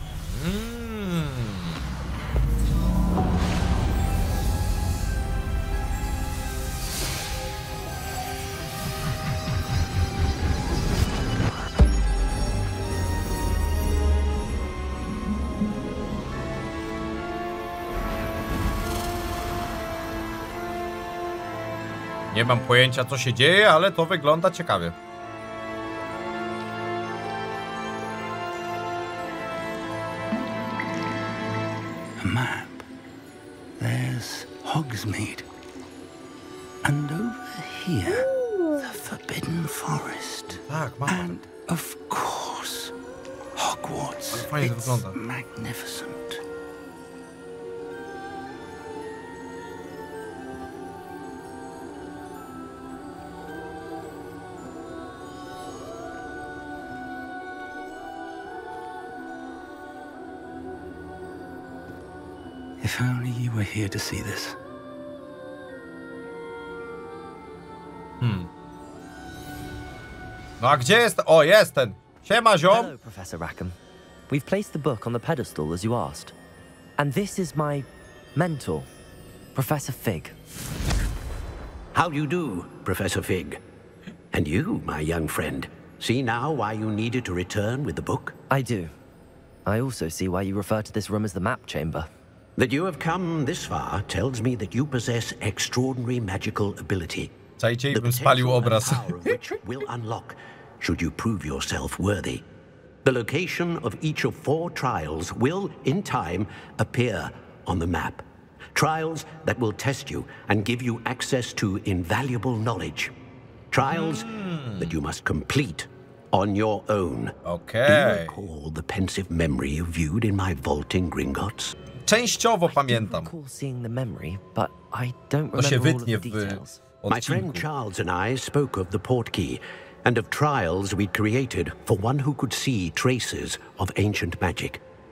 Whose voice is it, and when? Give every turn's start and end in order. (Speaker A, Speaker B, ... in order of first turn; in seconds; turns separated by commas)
Speaker A: 0.2-1.8, Speaker A: 22.3-24.9, Speaker B: 32.2-32.8, Speaker B: 33.8-35.5, Speaker B: 36.8-42.9, Speaker A: 38.3-38.8, Speaker A: 40.6-41.4, Speaker B: 43.5-46.4, Speaker A: 44.3-45.2, Speaker B: 62.8-64.6, Speaker A: 68.2-68.5, Speaker A: 70.6-72.9, Speaker C: 72.7-73.7, Speaker C: 74.3-76.3, Speaker C: 77.0-78.9, Speaker C: 79.5-80.3, Speaker D: 81.9-83.6, Speaker D: 84.3-88.4, Speaker C: 88.5-88.9, Speaker C: 89.7-92.1, Speaker D: 92.6-97.3, Speaker A: 97.6-99.3, Speaker D: 97.9-102.4, Speaker D: 103.0-113.1, Speaker D: 113.7-121.7, Speaker A: 113.8-115.0, Speaker A: 117.5-118.5, Speaker A: 122.0-123.3, Speaker C: 122.7-126.8, Speaker A: 125.5-127.7, Speaker D: 127.1-134.8